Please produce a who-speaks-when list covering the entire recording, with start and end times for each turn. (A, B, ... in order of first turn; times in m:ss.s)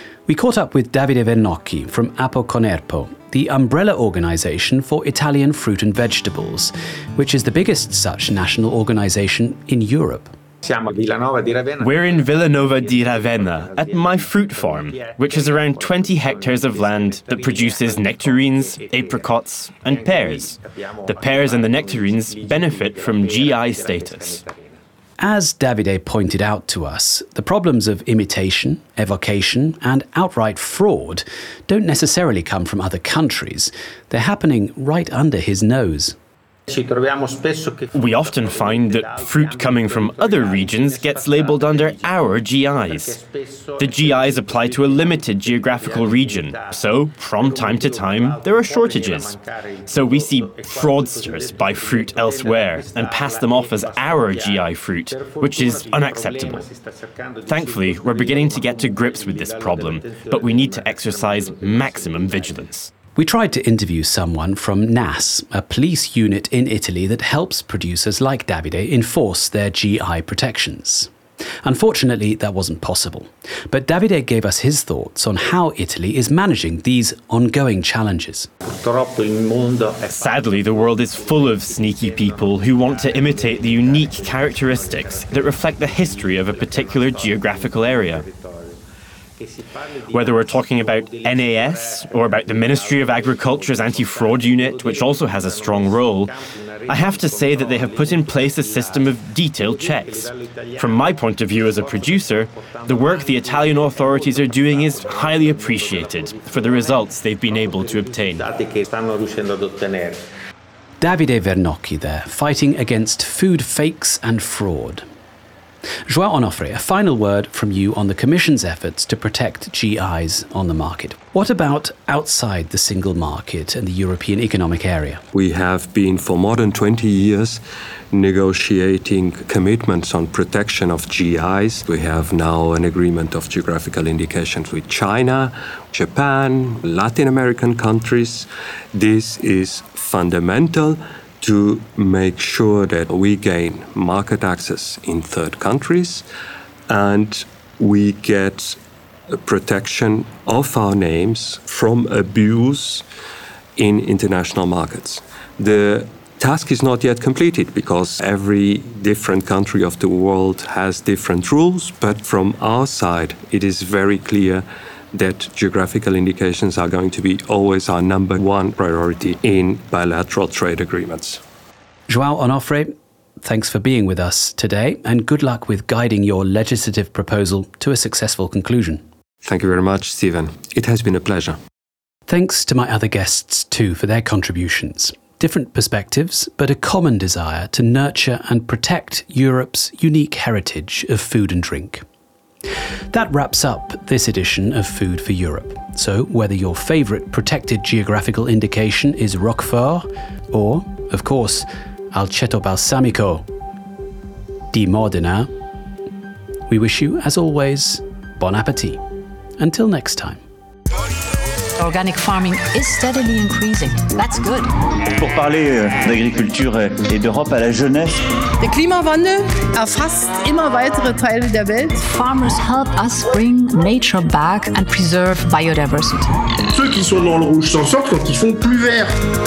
0:00.3-0:10.3 A
0:11.8-0:24.4 B
0:25.2-0:36.2 A
0:37.9-0:43.2 B
0:43.8-0:56.7 B
0:57.4-1:02.9 B
1:03.2-1:11.1 A
1:11.6-1:18.5 A
1:20.1-1:28.2 B
1:30.1-1:36.3 B
1:36.9-1:48.5 B
1:51.0-1:55.0 A
1:56.1-2:05.2 A
2:05.3-2:26.2 C
2:26.9-2:28.8 C
2:29.3-2:33.0 C
2:33.8-2:51.4 C
2:52.1-2:59.0 A
2:59.4-3:01.6 C
3:02.3-3:12.0 A
3:13.1-3:23.4 A
3:24.7-3:25.5 A
3:26.7-3:29.0 A
3:29.6-3:30.4 A
3:31.8-3:34.7 D
3:35.2-3:38.2 E
3:38.6-3:42.0 F
3:42.0-3:46.3 D
3:46.7-3:49.1 G